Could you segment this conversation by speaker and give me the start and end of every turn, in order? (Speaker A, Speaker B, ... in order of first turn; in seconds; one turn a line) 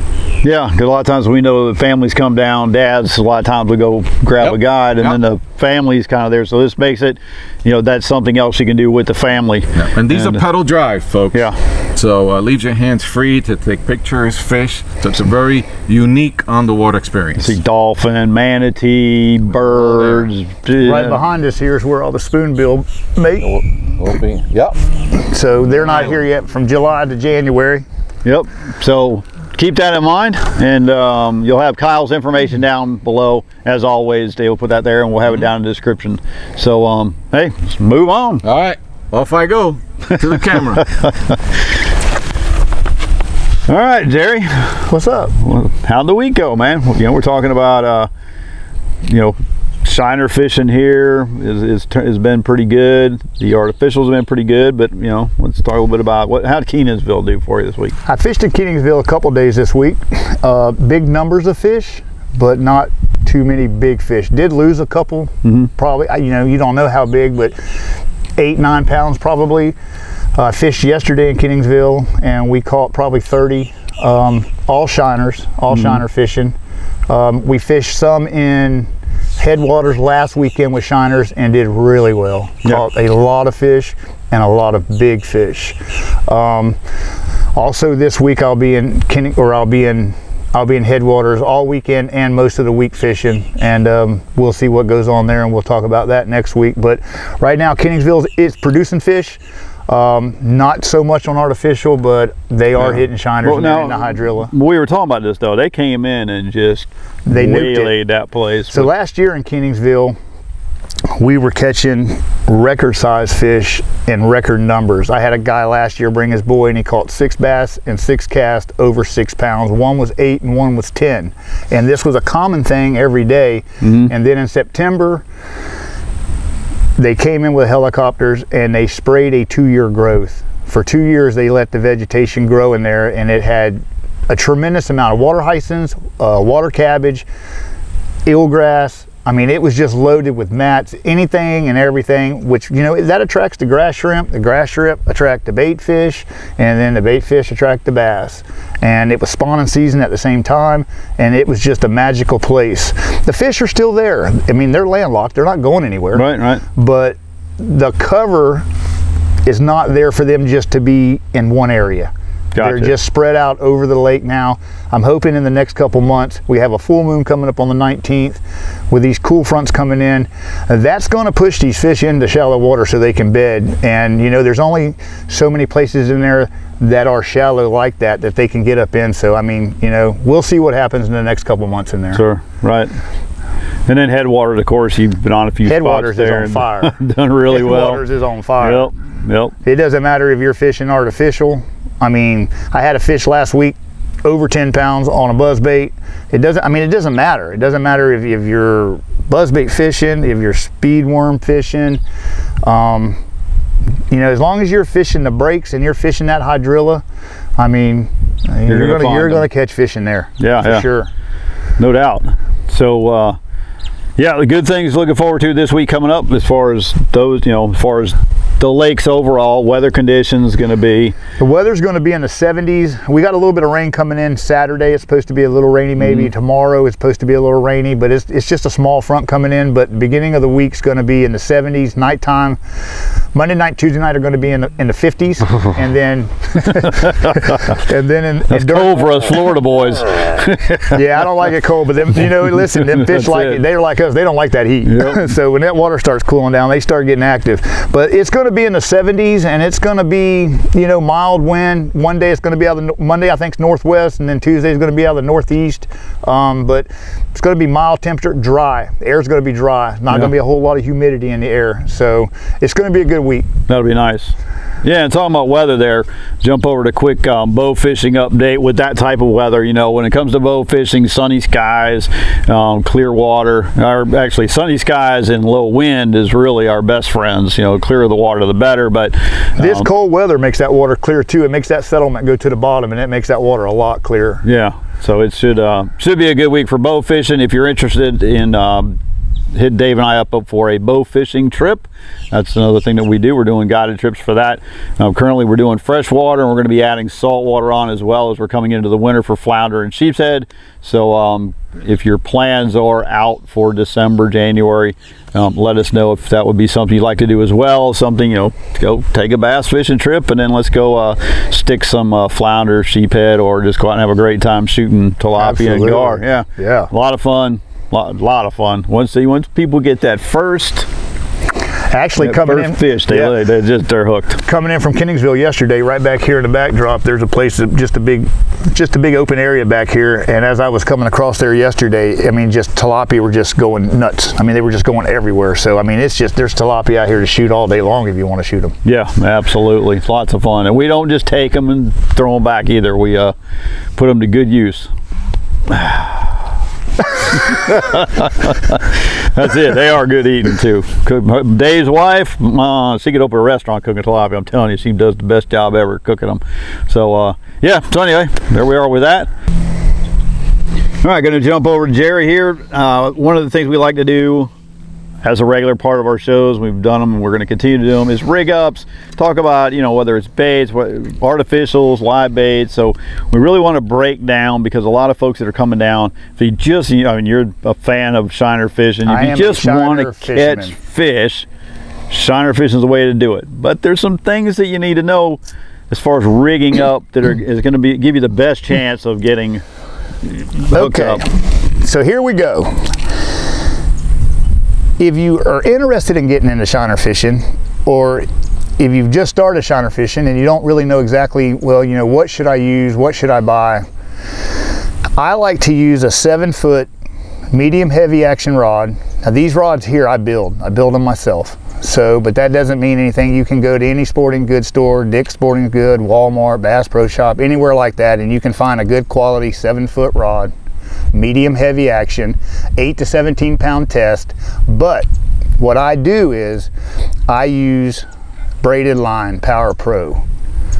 Speaker A: 0.4-10.4
Speaker B: 4.4-5.2
Speaker B: 9.8-17.6
Speaker A: 17.4-21.2
Speaker B: 19.6-20.2
Speaker C: 20.8-23.5
Speaker B: 23.4-24.8
Speaker C: 25.1-27.9
Speaker A: 28.2-38.4
Speaker B: 38.4-40.9
Speaker A: 41.0-41.4
Speaker A: 43.7-48.1
Speaker C: 44.9-45.3
Speaker A: 49.0-58.0
Speaker C: 58.0-67.5
Speaker C: 68.4-69.8
Speaker C: 70.3-76.5
Speaker A: 75.7-76.0
Speaker C: 77.1-86.8
Speaker C: 87.5-104.5
Speaker A: 102.8-108.9
Speaker C: 107.2-107.9
Speaker C: 108.7-110.2
Speaker C: 111.2-125.2
Speaker A: 123.8-124.1
Speaker C: 127.0-137.3
Speaker C: 138.2-156.2
Speaker A: 156.1-156.6
Speaker C: 156.7-158.7
Speaker C: 159.4-182.2
Speaker A: 162.5-162.9
Speaker A: 182.1-182.9
Speaker A: 183.9-188.0
Speaker C: 185.6-186.9
Speaker C: 187.5-188.9
Speaker A: 188.6-189.5
Speaker C: 189.6-202.0
Speaker C: 202.6-203.2
Speaker C: 204.1-207.0
Speaker C: 207.6-211.1
Speaker A: 208.7-209.4
Speaker A: 210.4-210.8
Speaker A: 211.8-213.4
Speaker A: 214.2-221.1
Speaker C: 221.4-232.6
Speaker A: 226.0-226.3
Speaker C: 233.3-239.3
Speaker A: 238.5-241.0
Speaker C: 240.9-263.5
Speaker A: 242.9-243.6
Speaker A: 244.8-245.2
Speaker A: 263.7-279.9
Speaker C: 279.6-284.4
Speaker A: 284.4-289.0
Speaker A: 289.5-320.9
Speaker C: 315.4-316.9
Speaker C: 321.9-323.4
Speaker A: 322.2-324.4
Speaker C: 324.4-338.7
Speaker A: 338.8-343.3
Speaker A: 343.9-344.9
Speaker A: 345.7-346.4
Speaker A: 347.2-359.3
Speaker A: 361.0-364.5
Speaker A: 365.2-381.5
Speaker C: 379.1-380.8
Speaker A: 382.1-389.6
Speaker A: 390.2-391.2
Speaker C: 390.7-393.1
Speaker C: 395.0-398.2
Speaker C: 398.8-403.8
Speaker C: 405.2-406.9
Speaker C: 407.5-420.5
Speaker C: 421.1-425.1
Speaker C: 425.6-426.7
Speaker C: 427.3-428.1
Speaker C: 428.6-430.2